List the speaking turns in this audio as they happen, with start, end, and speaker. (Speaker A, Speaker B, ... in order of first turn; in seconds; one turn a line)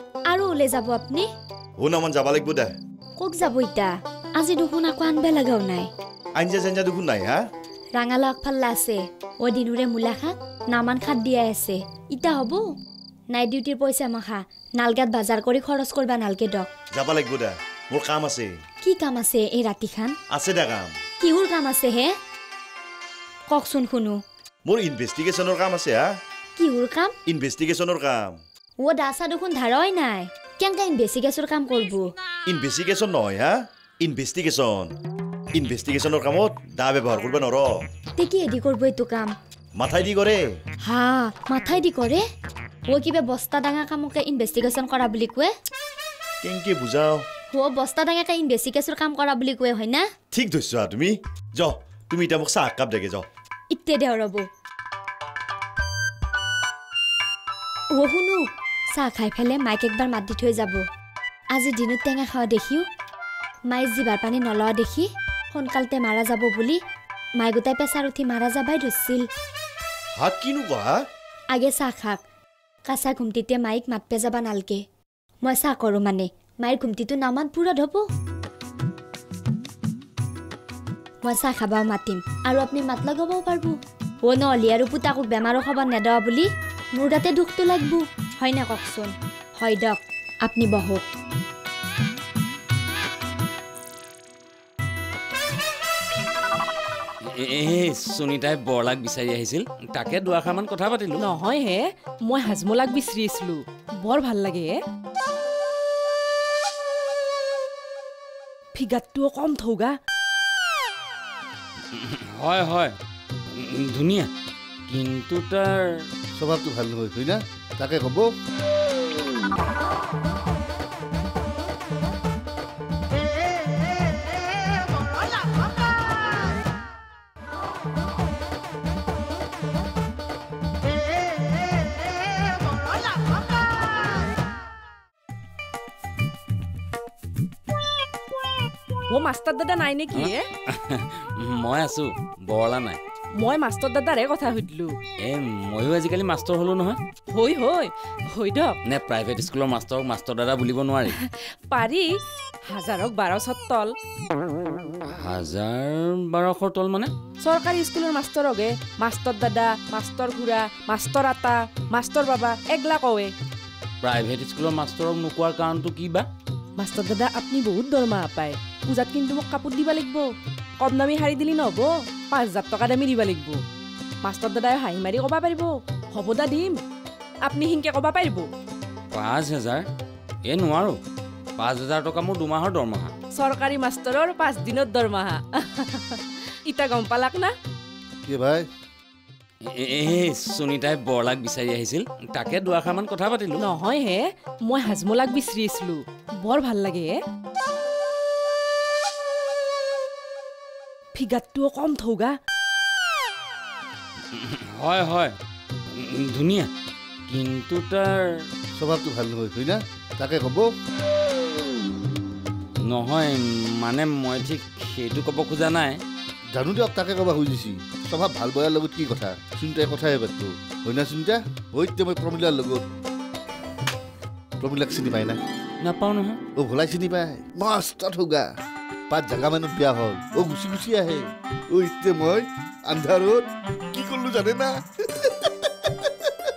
Speaker A: 0.3-1.3
Speaker B: 1.8-2.7
Speaker A: 3.2-5.9
Speaker B: 6.4-7.4
Speaker A: 7.9-12.7
Speaker A: 13.3-16.7
Speaker B: 16.9-18.5
Speaker A: 18.8-20.1
Speaker B: 20.3-20.9
Speaker A: 21.2-22.1
Speaker A: 23.5-24.2
Speaker B: 24.7-26.0
Speaker A: 26.6-27.1
Speaker B: 27.2-28.3
Speaker A: 28.8-32.1
Speaker B: 32.5-34.9
Speaker B: 35.5-37.7
Speaker A: 38.2-39.3
Speaker B: 39.8-40.4
Speaker A: 40.8-42.2
Speaker A: 42.9-45.5
Speaker B: 46.4-47.2
Speaker A: 47.5-50.1
Speaker B: 50.3-53.3
Speaker A: 53.7-54.5
Speaker A: 58.0-58.4
Speaker A: 58.9-60.8
Speaker A: 61.5-62.8
Speaker A: 63.7-66.8
Speaker A: 67.4-69.2
Speaker B: 70.2-70.9
Speaker A: 71.5-72.2
Speaker A: 72.9-74.8
Speaker A: 75.4-78.0
Speaker A: 81.2-91.0
Speaker C: 97.5-101.2
Speaker D: 101.2-104.7
Speaker D: 108.7-109.9
Speaker C: 111.9-112.9
Speaker C: 113.5-114.3
Speaker C: 114.9-115.8
Speaker E: 116.4-118.3
Speaker D: 139.1-140.4
Speaker C: 140.1-143.0
Speaker D: 143.3-144.9
Speaker C: 145.2-147.0
Speaker D: 147.3-148.8
Speaker C: 148.8-151.2
Speaker D: 151.1-152.1
Speaker D: 152.7-153.9
Speaker C: 155.1-157.1
Speaker D: 157.4-163.3
Speaker C: 164.0-166.2
Speaker D: 166.8-170.3
Speaker D: 170.8-173.6
Speaker D: 174.2-176.8
Speaker D: 177.4-178.5
Speaker C: 179.1-179.8
Speaker C: 180.4-181.0
Speaker C: 181.6-183.1
Speaker D: 183.3-187.5
Speaker E: 188.2-188.7
Speaker C: 189.8-193.6
Speaker D: 193.6-197.1
Speaker D: 201.1-202.3
Speaker C: 204.3-205.3
Speaker C: 205.9-206.7
Speaker C: 207.3-208.1
Speaker E: 208.8-210.7
Speaker C: 212.8-216.0
Speaker E: 216.5-222.8
Speaker E: 224.6-225.4
Speaker C: 225.8-226.4
Speaker E: 226.6-228.5
Speaker E: 229.1-235.5